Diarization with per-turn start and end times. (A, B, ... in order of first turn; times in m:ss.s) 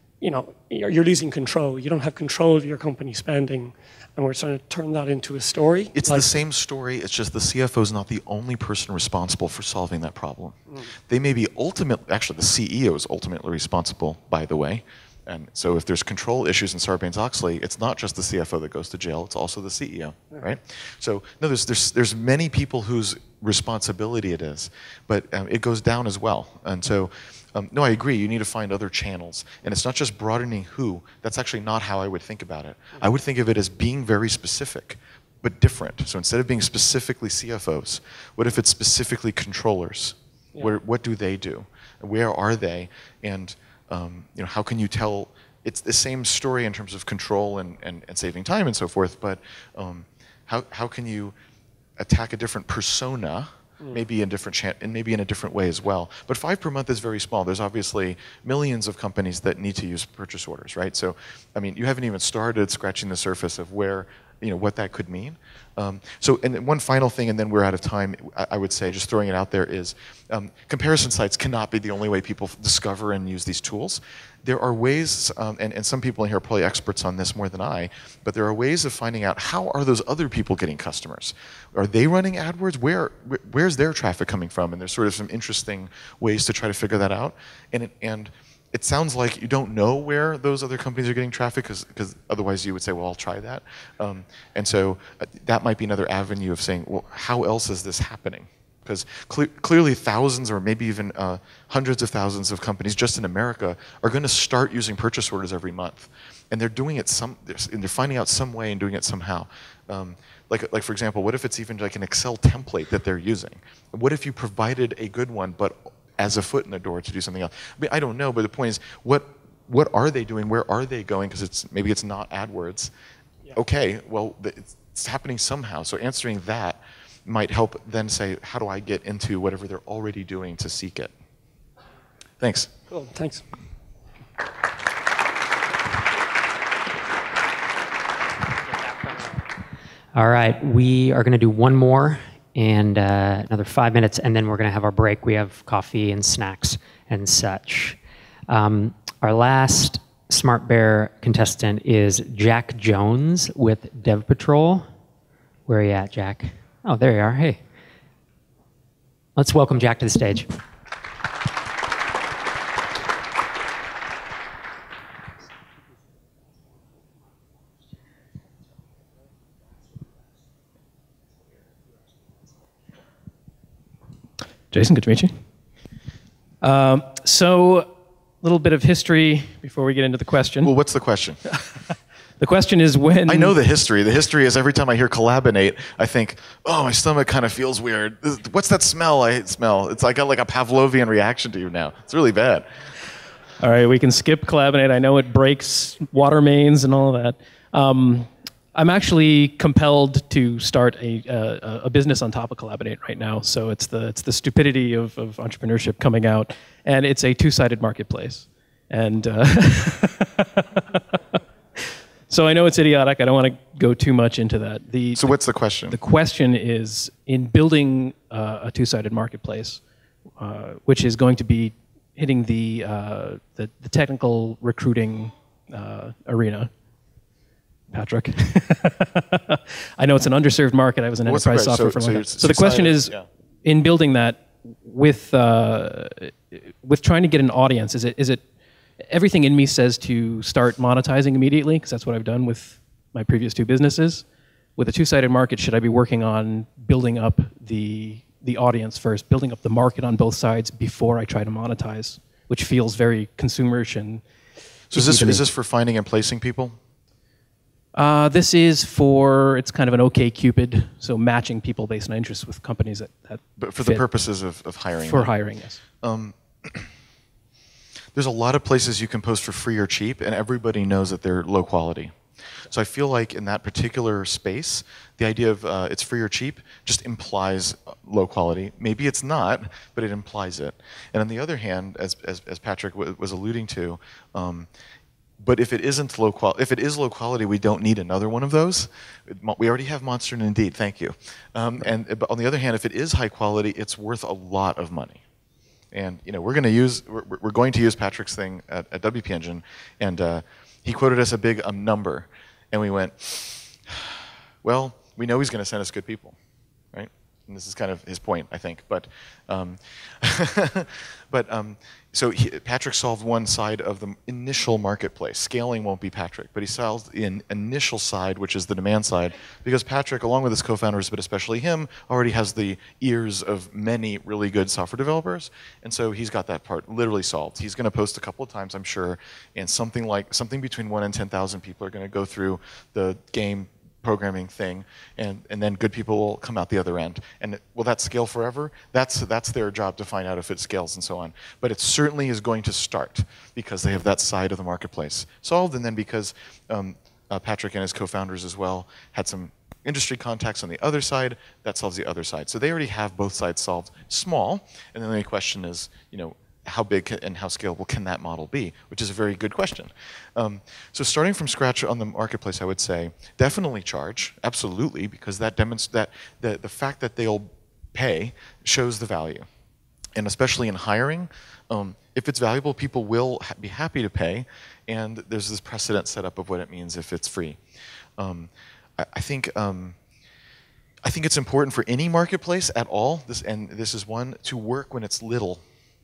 0:00.2-0:06.3 A
0:05.9-0:51.4 B
0:52.0-2:02.9 B
2:03.5-2:11.1 B
2:12.4-2:12.7 B
2:12.9-2:13.4 A
2:20.2-2:28.0 C
2:28.5-2:34.9 C
2:35.7-2:37.6 C
2:39.4-2:40.5 C
2:54.7-2:55.4 D
2:56.6-2:57.9 D
2:58.4-3:00.7 D
3:00.6-3:01.4 B
3:02.4-3:03.6 D
3:03.3-3:12.7 B
3:13.6-3:31.0 D
3:31.8-3:35.4 D
3:35.2-3:36.0 B
3:35.9-3:39.8 D
3:40.4-3:46.7 D
3:47.9-3:58.4 D
3:51.2-3:53.3 B
3:59.0-4:04.3 D
4:04.8-4:14.2 D
4:14.9-4:15.5 D
4:14.9-4:16.8 B
4:17.9-4:24.0 D
4:23.6-4:25.3 B
4:24.9-4:25.8 D
4:26.0-4:26.9 B
4:28.1-4:32.2 B
4:32.7-4:44.7 B
4:45.4-4:55.2 B
4:55.9-5:06.4 B
5:06.9-6:09.5 B
6:10.2-6:17.6 B
6:18.2-6:20.0 B
6:21.0-6:25.6 B